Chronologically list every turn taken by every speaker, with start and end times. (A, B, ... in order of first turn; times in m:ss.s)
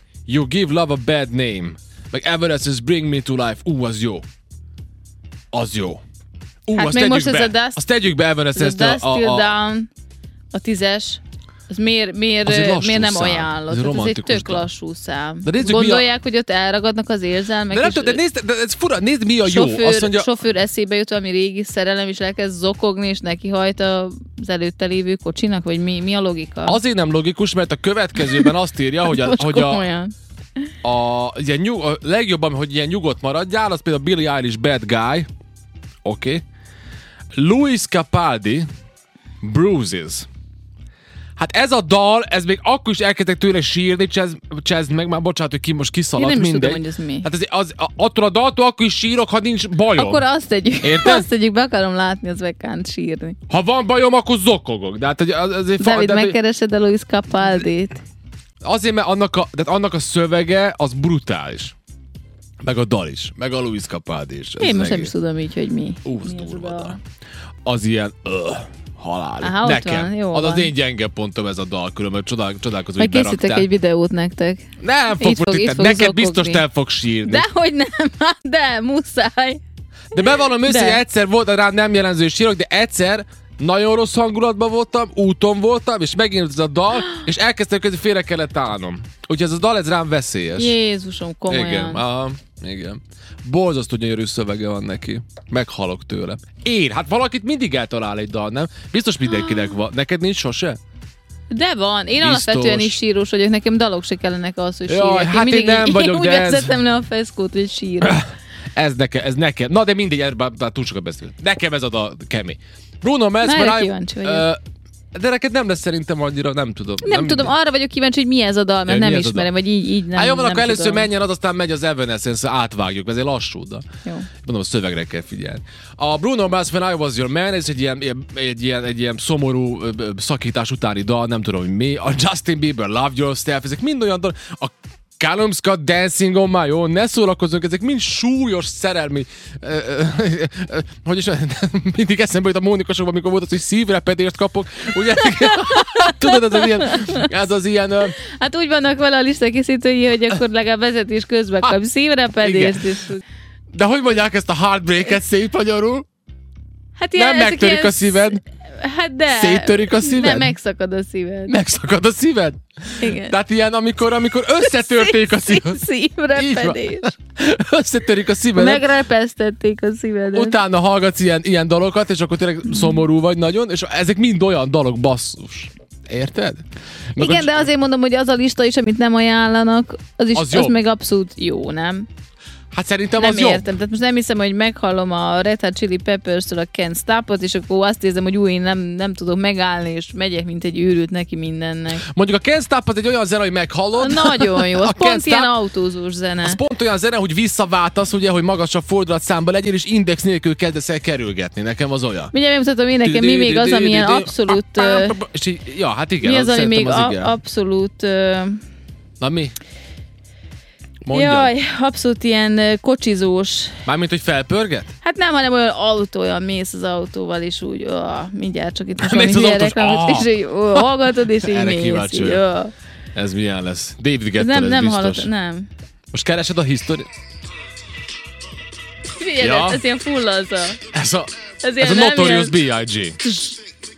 0:00.2-0:04.2 A
0:05.5-0:06.0 A
0:06.6-0:09.5 A
0:06.7-0:07.8 B
0:08.5-0:09.9 B
0:10.5-0:18.2 B
0:12.4-0:14.6 A
0:15.4-0:16.1 A
0:17.7-0:20.3 A
0:19.4-0:26.8 B
0:26.7-0:29.8 A
0:28.2-0:30.1 B
0:30.8-0:35.3 A
0:36.0-0:36.4 A
0:37.3-0:38.7 A
0:39.4-0:40.3 A
0:41.4-0:50.2 A
0:46.2-0:47.3 B
0:49.9-0:53.4 B
0:50.8-0:51.2 A
0:53.5-0:56.4 A
0:55.8-0:58.0 B
0:58.6-1:01.7 A
1:02.6-1:05.1 A
1:04.6-1:07.0 B
1:06.0-1:07.0 A
1:07.6-1:13.7 A
1:09.4-1:10.7 B
1:13.0-1:16.6 B
1:14.8-1:17.4 A
1:17.2-1:19.6 B
1:20.1-1:30.7 A
1:20.1-1:21.0 B
1:30.6-1:32.0 B
1:31.5-1:40.8 A
1:39.3-1:39.7 B
1:41.5-1:48.2 B
1:42.2-1:43.0 A
1:44.9-1:46.8 A
1:48.7-1:54.6 A
1:53.4-1:54.4 B
1:55.1-1:57.5 A
1:57.0-2:01.1 B
1:58.9-1:59.5 A
2:00.1-2:03.8 A
2:04.4-2:28.2 A
2:25.3-2:27.3 B
2:28.2-2:33.2 B
2:32.4-2:33.0 A
2:33.7-2:36.0 A
2:37.0-2:41.6 B
2:37.2-2:38.4 A
2:39.3-2:40.5 A
2:41.5-2:48.8 A
2:43.0-2:43.4 B
2:44.6-2:47.1 B
2:48.5-2:50.6 B
2:50.3-2:57.7 A
2:52.7-2:53.0 B
2:57.2-3:02.1 B
3:00.3-3:00.8 A
3:02.7-3:03.6 A
3:03.2-3:12.1 B
3:12.0-3:15.5 A
3:13.9-3:16.6 B
3:16.4-3:22.3 A
3:22.3-3:25.2 B
3:23.0-3:27.3 A
3:26.2-3:28.6 B
3:29.2-3:29.5 A
3:31.0-3:31.5 A
3:31.1-3:33.8 B
3:33.8-3:34.9 A
3:35.0-3:42.7 B
3:39.0-3:42.4 A
3:43.1-3:45.3 A
3:44.4-3:45.7 B
3:46.1-3:47.1 A
3:49.2-3:50.8 B
3:49.4-3:49.8 A
3:50.9-3:53.2 A
3:51.6-3:52.6 B
3:53.2-3:53.6 B